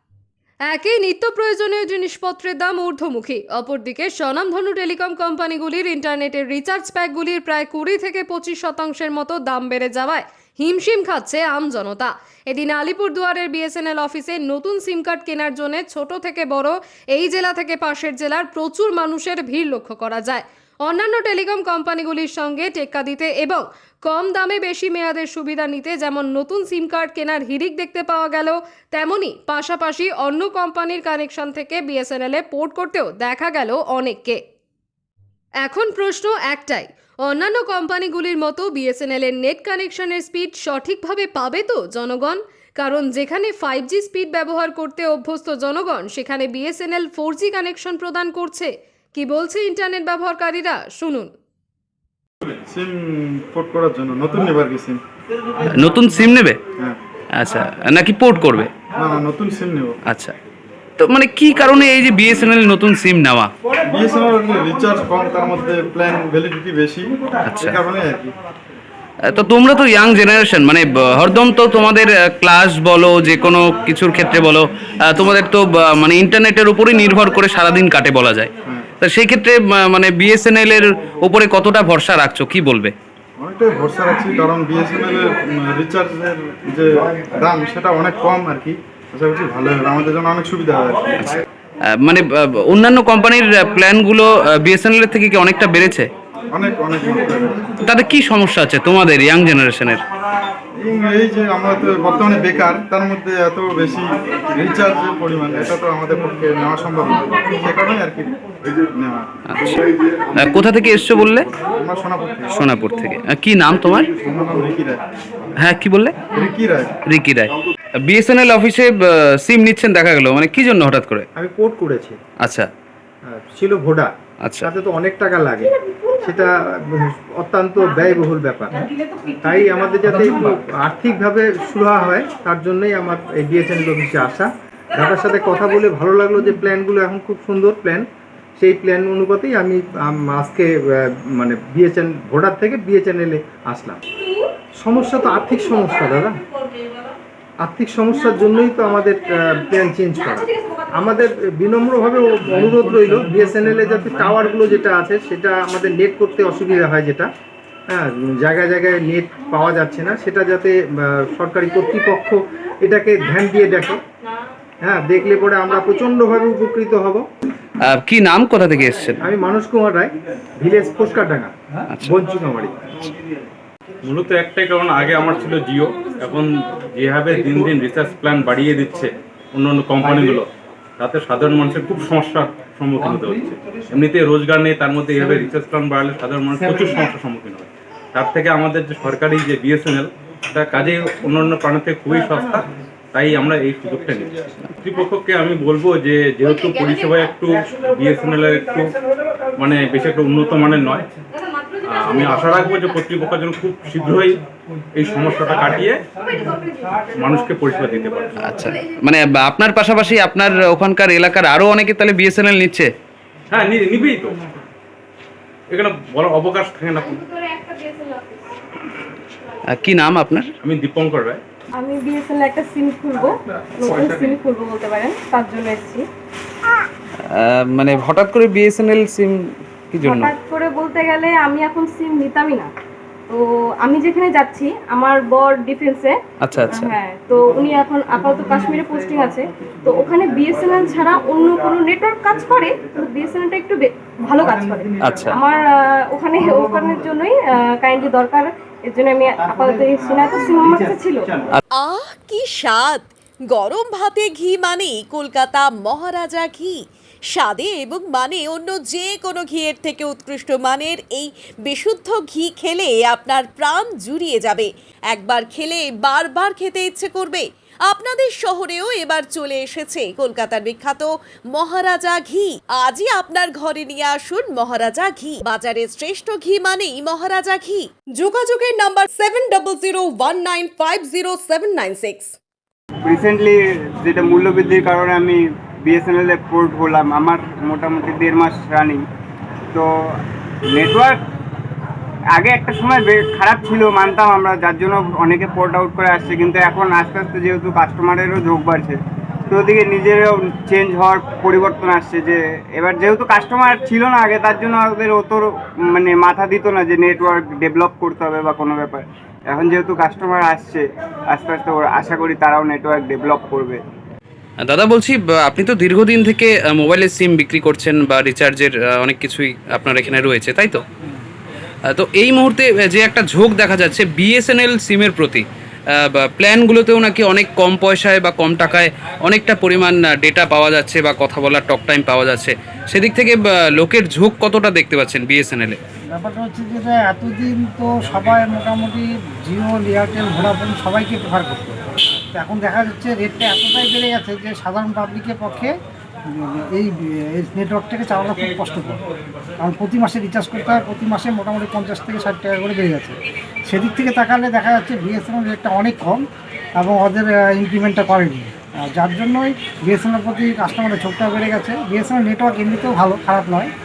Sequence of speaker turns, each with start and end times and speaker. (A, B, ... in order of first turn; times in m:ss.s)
0:00.7-0:34.4 A
0:35.6-0:51.3 A
0:52.5-0:55.0 B
0:55.7-0:56.6 C
0:57.3-0:58.8 C
0:58.9-1:00.0 B
1:00.1-1:00.3 C
1:01.0-1:03.5 C
1:03.9-1:08.4 B
1:07.4-1:07.8 C
1:09.2-1:22.9 C
1:23.4-1:31.4 B
1:31.2-1:36.1 C
1:36.5-1:37.7 B
1:37.8-1:40.0 C
1:40.8-1:49.3 B
1:49.5-1:49.8 C
1:50.4-1:51.5 C
1:51.6-1:52.5 B
1:52.5-1:54.1 C
1:54.2-1:55.0 B
1:55.6-1:56.2 C
1:56.3-1:56.9 B
1:57.1-2:01.2 C
2:01.4-2:02.2 D
2:02.4-2:02.7 C
2:03.2-2:08.8 D
2:04.4-2:04.7 C
2:05.8-2:06.3 E
2:09.4-2:18.0 D
2:18.6-2:24.0 D
2:24.8-2:26.4 D
2:27.6-2:37.3 D
2:37.9-2:44.0 D
2:44.8-2:47.2 D
2:47.8-2:49.2 C
2:49.2-2:52.8 D
2:51.9-2:52.2 C
2:54.0-3:18.9 F
3:19.6-3:21.1 F
3:21.8-3:26.0 F
3:27.0-3:28.5 F
3:28.4-3:32.9 C
3:33.5-3:34.4 F
3:35.7-3:37.3 F
3:37.3-3:38.4 E
3:39.7-3:40.5 C
3:40.6-3:41.4 F
3:41.7-3:46.0 E
3:47.3-3:50.3 C
3:50.0-3:52.7 E
3:53.3-3:56.2 E
3:56.4-3:57.0 C
3:56.7-4:11.3 E
4:05.0-4:05.4 C
4:11.7-4:37.9 G
4:40.8-4:41.4 G
4:43.0-4:49.0 H
4:50.7-4:51.2 H
4:52.4-5:13.8 H
5:14.6-5:20.8 C
5:21.9-5:25.4 C
5:26.0-5:35.8 C
5:36.1-5:45.8 I
5:46.3-5:49.0 I
5:49.6-5:56.2 I
5:56.8-6:03.7 I